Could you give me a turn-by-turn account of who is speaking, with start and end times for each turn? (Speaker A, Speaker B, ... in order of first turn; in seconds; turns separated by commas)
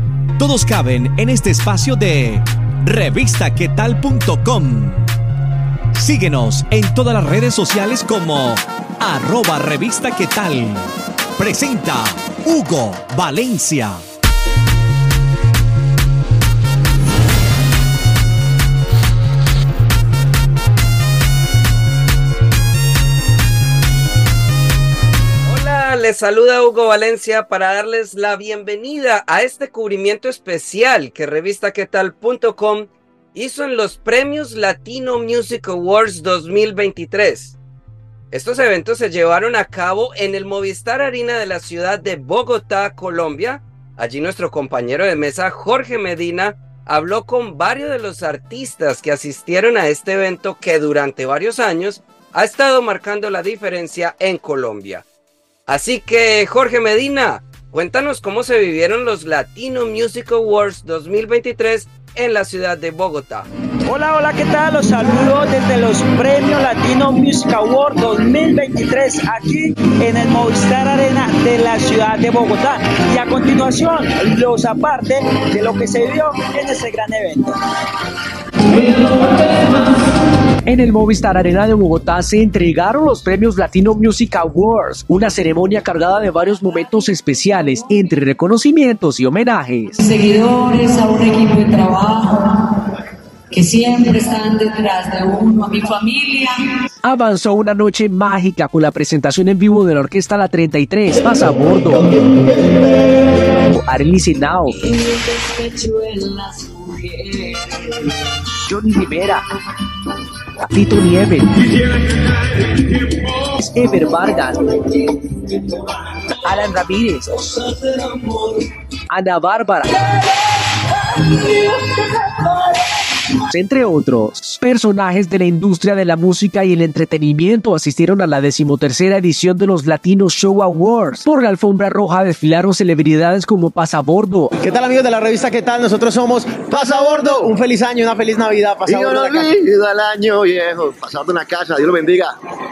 Speaker A: 0.4-5.1, Speaker A: 5.9-14.0, Speaker B: 25.4-37.5, Speaker B: 38.3-55.0, Speaker B: 55.7-63.5, Speaker C: 63.9-77.6, Speaker D: 80.7-90.0, Speaker E: 90.0-92.8, Speaker E: 93.5-96.7, Speaker D: 97.0-102.4, Speaker D: 103.6-104.8, Speaker E: 104.8-107.9, Speaker D: 108.7-109.4, Speaker D: 110.6-111.8, Speaker D: 112.7-114.9, Speaker D: 116.2-117.8, Speaker D: 119.1-120.2, Speaker D: 123.3-134.5, Speaker F: 134.6-139.6, Speaker G: 138.8-142.3